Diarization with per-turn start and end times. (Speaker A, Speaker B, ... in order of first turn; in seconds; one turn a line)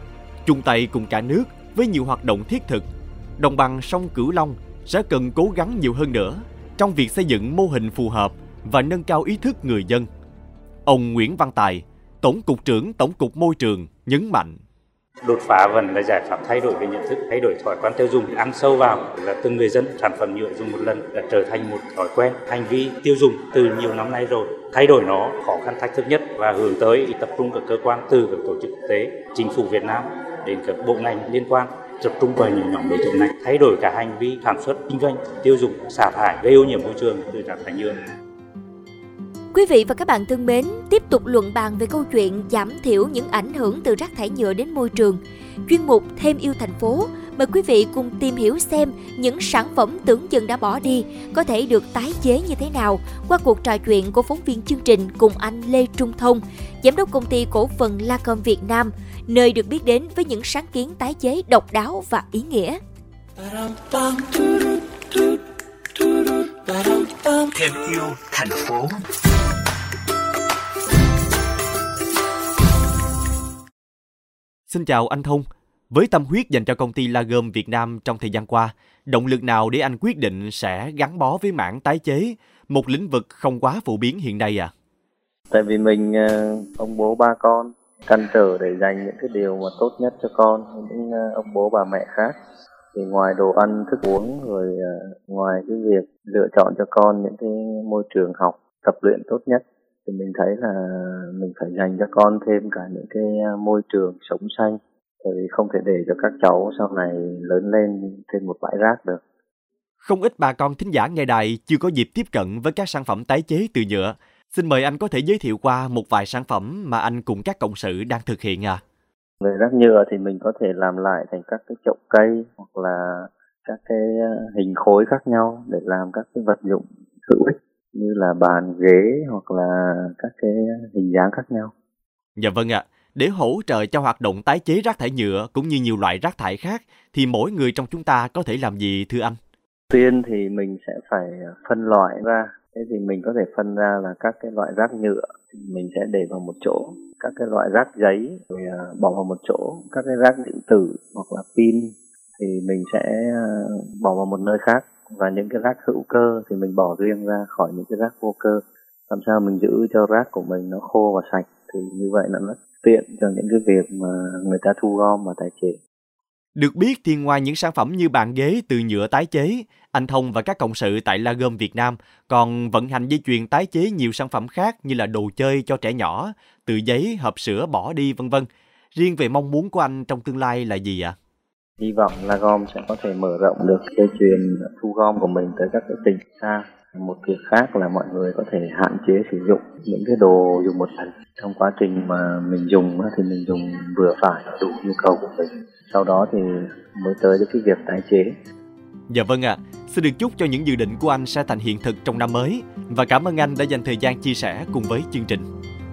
Speaker A: 0.4-10.1
Speaker A: 10.8-14.6
Speaker B: 15.2-38.0
Speaker C: 39.5-62.8
Speaker D: 63.4-64.7
Speaker D: 66.6-69.0
Speaker A: 74.7-84.7
Speaker E: 85.5-92.3
Speaker E: 92.9-109.2
Speaker A: 110.0-118.8
Speaker E: 119.4-131.7
Speaker A: 132.4-139.4
Speaker E: 139.9-165.8
Speaker A: 166.6-181.1
Speaker E: 181.8-198.3
Speaker A: 199.1-205.5